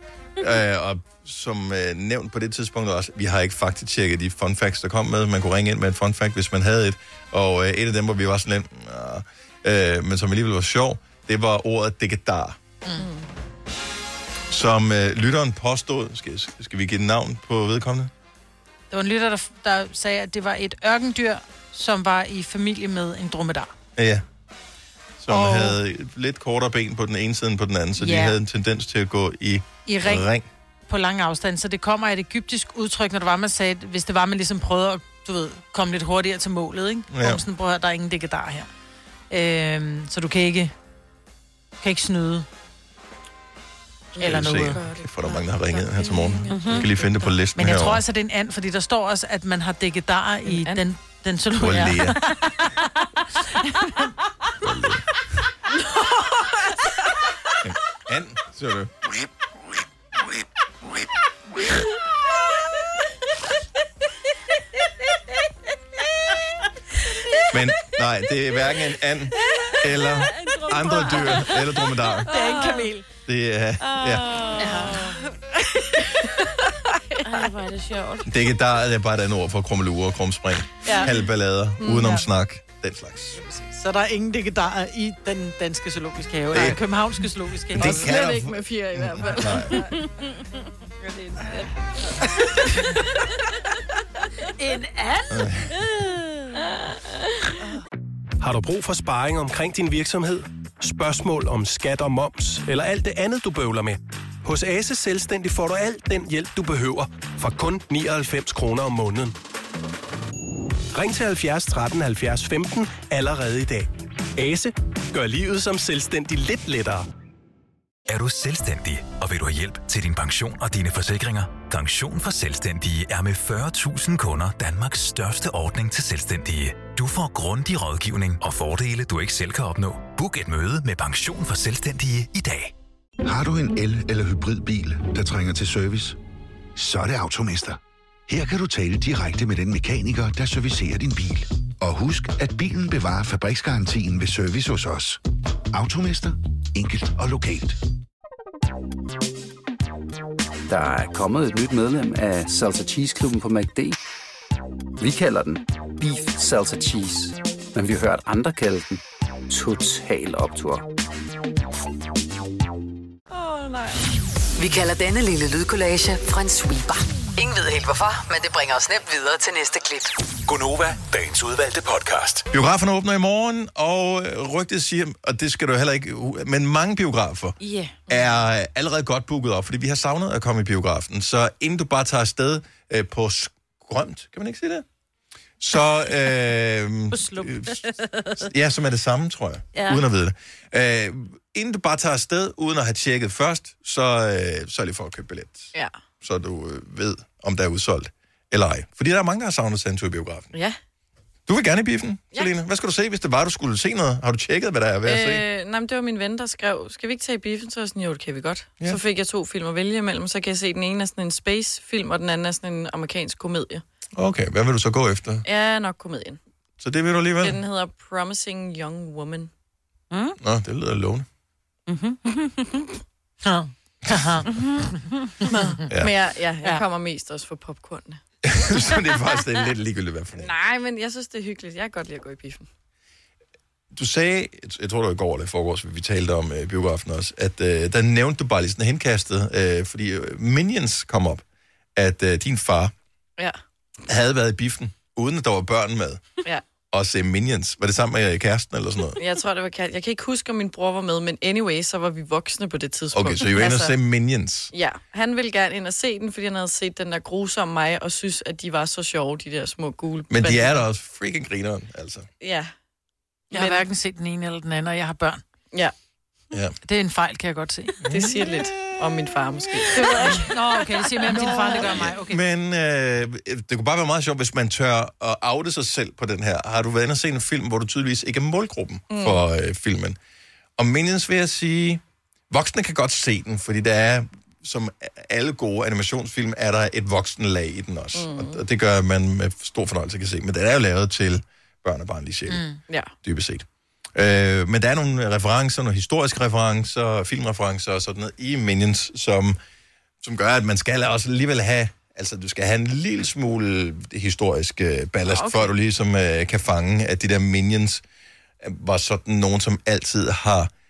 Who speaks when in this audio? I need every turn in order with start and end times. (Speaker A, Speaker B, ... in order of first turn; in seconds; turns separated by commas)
Speaker A: 0.4-12.6, Speaker B: 13.0-13.3, Speaker A: 14.5-18.1, Speaker C: 18.9-23.7, Speaker A: 23.9-24.2, Speaker A: 25.2-30.5, Speaker C: 25.3-25.8, Speaker C: 28.0-28.4, Speaker C: 29.9-30.2, Speaker C: 30.9-38.7, Speaker A: 37.1-37.4, Speaker C: 39.3-40.7, Speaker C: 41.8-42.4, Speaker B: 44.1-47.1, Speaker A: 44.1-48.0, Speaker C: 44.2-44.8, Speaker D: 46.5-46.9, Speaker C: 47.5-52.5, Speaker B: 50.5-50.8, Speaker A: 51.5-52.2, Speaker A: 54.6-55.0, Speaker A: 57.6-58.9, Speaker A: 67.5-72.3, Speaker D: 69.7-71.6, Speaker D: 72.2-73.0, Speaker C: 72.3-73.0, Speaker A: 73.3-74.4, Speaker D: 73.9-75.2, Speaker C: 74.6-75.2, Speaker D: 77.2-78.2, Speaker A: 78.2-83.4, Speaker B: 83.4-83.7, Speaker C: 83.7-88.1, Speaker A: 86.5-86.8, Speaker A: 87.7-89.8, Speaker B: 87.8-89.9, Speaker C: 94.6-95.3, Speaker A: 95.3-95.7, Speaker D: 96.0-96.4, Speaker E: 98.4-109.3, Speaker E: 110.9-117.1, Speaker F: 118.1-132.7, Speaker G: 133.2-136.2, Speaker G: 136.8-145.2, Speaker G: 145.7-147.8, Speaker H: 150.7-153.9, Speaker H: 155.0-160.8, Speaker B: 163.3-164.0, Speaker I: 164.6-170.1, Speaker F: 170.5-172.4, Speaker A: 172.5-177.6, Speaker D: 177.6-177.9, Speaker A: 178.1-184.8, Speaker A: 185.6-187.8, Speaker D: 187.1-188.4, Speaker A: 188.4-200.5, Speaker D: 189.7-190.0, Speaker A: 201.5-205.4, Speaker B: 205.0-213.8, Speaker A: 214.1-215.4, Speaker B: 215.4-216.4, Speaker A: 216.8-217.6, Speaker B: 217.4-219.5, Speaker D: 220.1-220.3, Speaker A: 220.4-221.2, Speaker D: 221.9-222.8, Speaker C: 223.4-225.6, Speaker D: 224.5-224.9, Speaker B: 225.5-228.2, Speaker A: 228.4-230.5, Speaker B: 230.4-232.7, Speaker A: 233.9-241.4, Speaker A: 241.9-242.9, Speaker A: 244.1-246.4, Speaker A: 246.9-249.2, Speaker B: 249.2-253.9, Speaker A: 253.1-254.7, Speaker B: 254.7-260.8, Speaker A: 260.3-262.3, Speaker B: 262.4-262.7, Speaker B: 263.5-263.9, Speaker C: 263.5-265.4, Speaker C: 266.8-267.9, Speaker A: 268.0-268.6, Speaker B: 268.1-270.5, Speaker A: 270.0-270.4, Speaker C: 270.3-272.4, Speaker A: 271.3-280.2, Speaker B: 279.1-279.4, Speaker A: 280.8-292.6, Speaker B: 288.1-288.6, Speaker C: 292.5-292.8, Speaker A: 293.2-299.6, Speaker A: 300.2-308.0, Speaker B: 305.3-305.7, Speaker A: 308.6-310.7